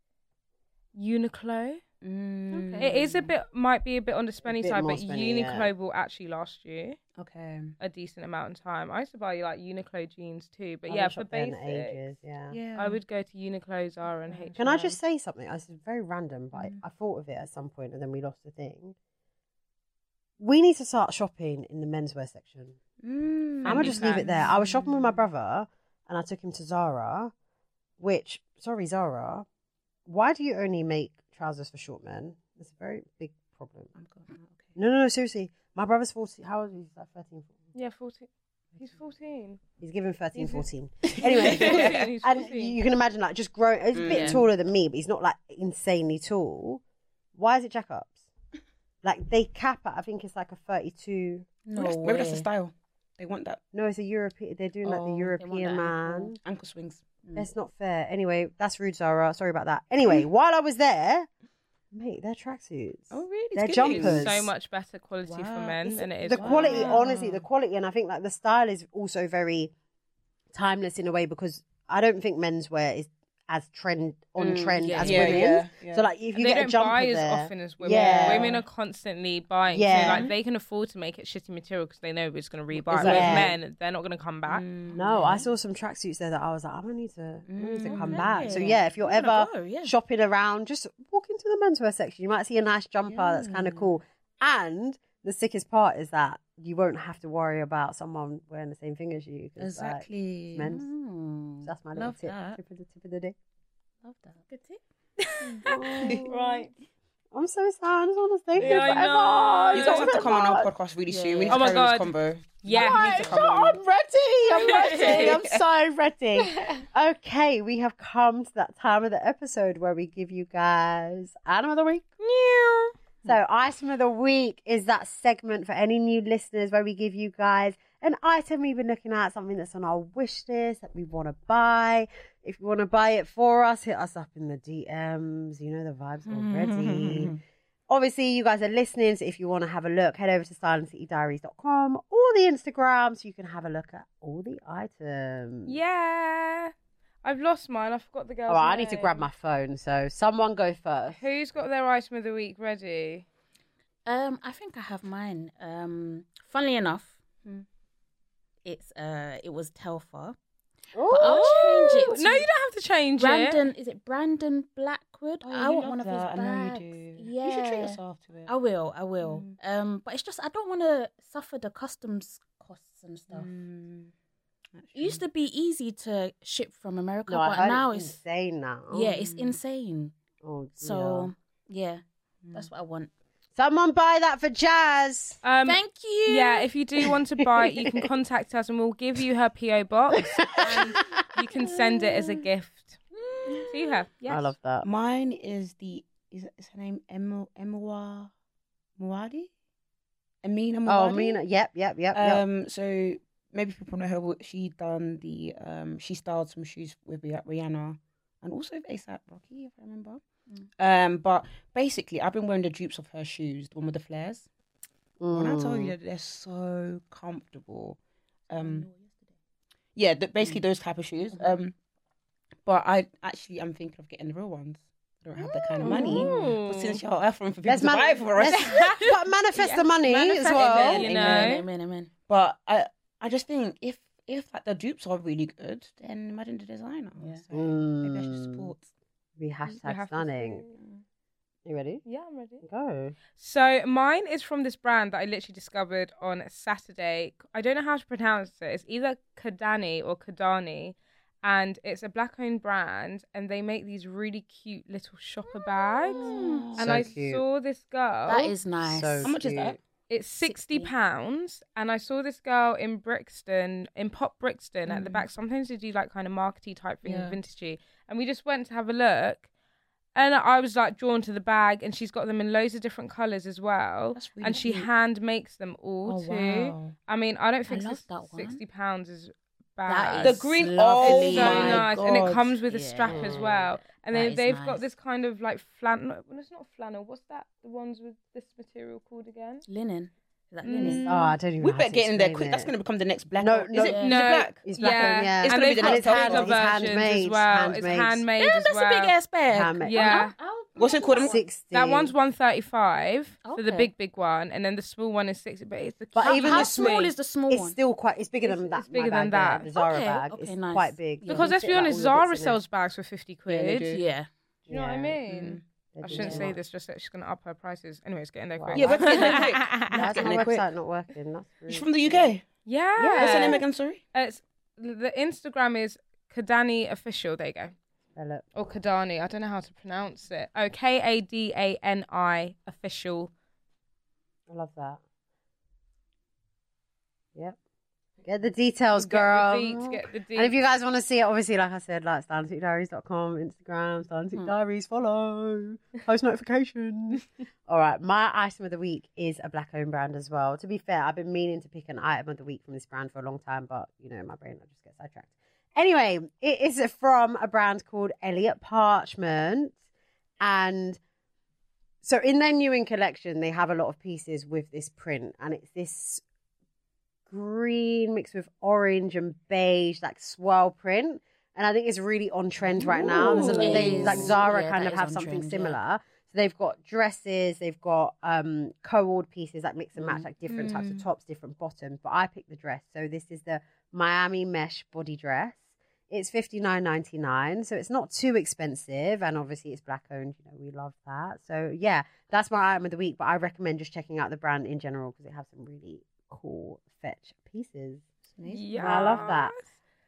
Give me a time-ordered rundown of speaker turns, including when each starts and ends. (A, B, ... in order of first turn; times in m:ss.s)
0:00.9-0:01.8 A
0:02.0-0:03.3 B
0:02.5-0:03.0 C
0:02.8-0:07.0 A
0:04.4-0:05.7 D
0:07.2-0:07.8 B
0:07.8-0:12.0 A
0:10.9-0:12.6 D
0:12.5-0:13.0 B
0:12.8-0:15.0 A
0:14.3-0:14.5 B
0:14.6-0:19.0 D
0:16.5-0:16.8 B
0:20.4-0:22.8 D
0:23.0-0:25.1 B
0:23.6-0:24.5 C
0:23.6-0:27.3 D
0:28.0-0:29.5 D
0:30.1-0:33.9 D
0:34.0-0:34.8 B
0:34.8-0:37.6 D
0:37.7-0:39.6 A
0:39.8-0:46.8 D
0:40.4-0:40.7 A
0:41.1-0:42.1 B
0:41.2-0:42.8 A
0:43.9-0:44.5 B
0:44.1-0:44.4 C
0:47.4-0:48.2 D
0:49.0-0:51.5 D
0:51.6-0:52.5 C
0:51.8-0:53.6 B
0:53.7-0:56.4 D
0:54.8-0:56.4 C
0:56.4-0:57.3 B
0:57.4-1:01.3 D
1:01.9-1:04.5 D
1:03.1-1:04.5 B
1:03.9-1:07.3 A
1:05.2-1:07.2 B
1:06.3-1:09.7 D
1:10.5-1:18.6 D
1:14.4-1:16.1 B
1:14.8-1:15.5 C
1:16.4-1:24.7 A
1:17.9-1:18.6 B
1:18.0-1:18.3 C
1:19.7-1:20.3 D
1:19.9-1:20.3 B
1:22.9-1:23.6 D
1:23.0-1:23.5 B
1:23.0-1:23.4 C
1:24.5-1:25.5 B
1:25.0-1:40.9 D
1:27.5-1:28.7 B
1:27.9-1:29.9 C
1:33.1-1:33.9 B
1:39.6-1:40.8 B
1:40.6-1:41.7 C
1:41.6-1:43.4 D
1:42.0-1:42.6 B
1:44.1-1:44.4 B
1:44.4-1:44.8 C
1:45.2-1:46.7 A
1:45.6-1:46.6 D
1:47.3-1:50.7 D
1:48.6-1:50.2 A
1:49.8-1:53.8 B
1:51.1-1:51.7 C
1:51.5-1:53.5 A
1:52.7-2:02.1 D
1:54.5-1:55.4 A
1:54.6-1:55.6 B
2:02.2-2:02.9 A
2:03.2-2:17.4 D
2:16.2-2:17.4 B
2:17.9-2:25.8 D
2:25.7-2:26.7 A
2:27.2-2:29.3 A
2:28.5-2:31.2 D
2:31.1-2:33.3 A
2:34.1-2:37.2 C
2:38.6-2:40.4 C
2:40.9-2:41.6 D
2:41.1-2:42.5 C
2:41.2-2:43.7 A
2:43.2-2:53.5 C
2:45.4-2:48.5 B
2:49.2-2:49.6 B
2:53.3-2:54.1 B
2:54.8-2:55.2 B
2:54.9-2:58.2 C
2:57.3-2:59.1 D
2:58.9-3:00.1 C
2:59.2-2:59.6 B
3:00.4-3:01.3 D
3:00.8-3:03.1 C
3:02.4-3:02.7 B
3:03.6-3:05.4 D
3:05.4-3:13.0 A
3:05.6-3:06.7 C
3:07.7-3:08.1 D
3:10.4-3:11.0 D
3:10.6-3:11.0 C
3:13.3-3:13.7 B
3:13.5-3:14.5 A
3:14.3-3:14.9 D
3:14.8-3:18.3 B
3:19.0-3:19.5 B
3:20.4-3:21.4 B
3:20.9-3:22.4 D
3:22.1-3:30.2 B
3:30.8-3:34.5 B
3:35.2-3:35.9 D
3:35.3-3:38.0 B
3:38.5-3:38.9 B
3:38.5-3:39.1 C
3:40.0-3:41.7 B
3:41.3-3:41.6 C
3:42.6-3:49.0 B
3:45.4-3:46.6 C
3:45.8-3:47.0 A
3:47.6-3:51.5 D
3:48.5-3:49.9 A
3:50.0-3:52.1 C
3:50.5-3:51.6 A
3:52.3-3:58.9 B
3:57.2-3:57.4 C
3:57.5-3:58.7 D
3:59.4-4:00.6 D
3:59.7-4:00.8 A
4:01.7-4:02.0 D
4:02.0-4:02.6 A
4:02.6-4:03.2 D
4:03.4-4:18.5 A
4:15.8-4:17.1 B
4:16.1-4:16.8 C
4:16.8-4:17.4 D
4:18.3-4:19.4 C
4:18.8-4:19.8 D
4:19.2-4:19.8 B
4:20.1-4:29.5 A
4:20.4-4:20.9 C
4:24.9-4:25.3 B
4:27.0-4:27.4 B
4:30.2-4:40.5 A
4:34.2-4:34.9 B
4:36.0-4:37.0 B
4:37.7-4:38.6 C
4:39.9-4:41.9 C
4:40.2-4:42.6 B
4:41.0-4:49.7 A
4:42.7-4:44.8 C
4:43.0-4:43.7 D
4:49.7-4:51.0 C
4:50.6-4:51.3 A
4:50.8-4:56.8 B
4:50.9-4:52.7 D
4:53.4-4:54.0 D
4:53.8-4:54.2 C
4:54.0-4:59.2 A
4:54.7-4:58.2 D
4:58.4-5:01.3 C
4:59.5-5:00.2 D
4:59.9-5:07.1 A
5:00.8-5:01.4 B
5:01.2-5:02.1 D
5:03.4-5:03.9 C
5:06.2-5:12.6 D
5:06.2-5:07.8 C
5:08.4-5:09.7 A
5:09.8-5:11.9 C
5:11.3-5:14.0 A
5:13.5-5:14.0 B
5:13.9-5:14.3 C
5:14.7-5:15.2 D
5:14.7-5:20.4 A
5:15.3-5:15.6 B
5:16.0-5:16.6 D
5:16.2-5:16.4 C
5:18.6-5:22.3 D
5:18.7-5:20.7 B
5:21.7-5:22.5 B
5:22.6-5:27.8 A
5:23.0-5:23.6 D
5:23.1-5:24.0 B
5:28.2-5:28.4 D
5:28.6-5:33.3 A
5:34.5-5:35.0 D
5:38.2-5:59.8 D
5:38.9-5:40.6 A
6:00.4-6:01.0 D
6:02.0-6:06.2 D
6:07.3-6:38.0 D
6:12.7-6:14.4 B
6:13.0-6:15.8 C
6:13.4-6:14.2 A
6:20.0-6:20.3 C
6:20.5-6:21.1 B
6:38.4-6:39.2 B
6:38.5-6:39.6 A
6:38.8-6:39.6 D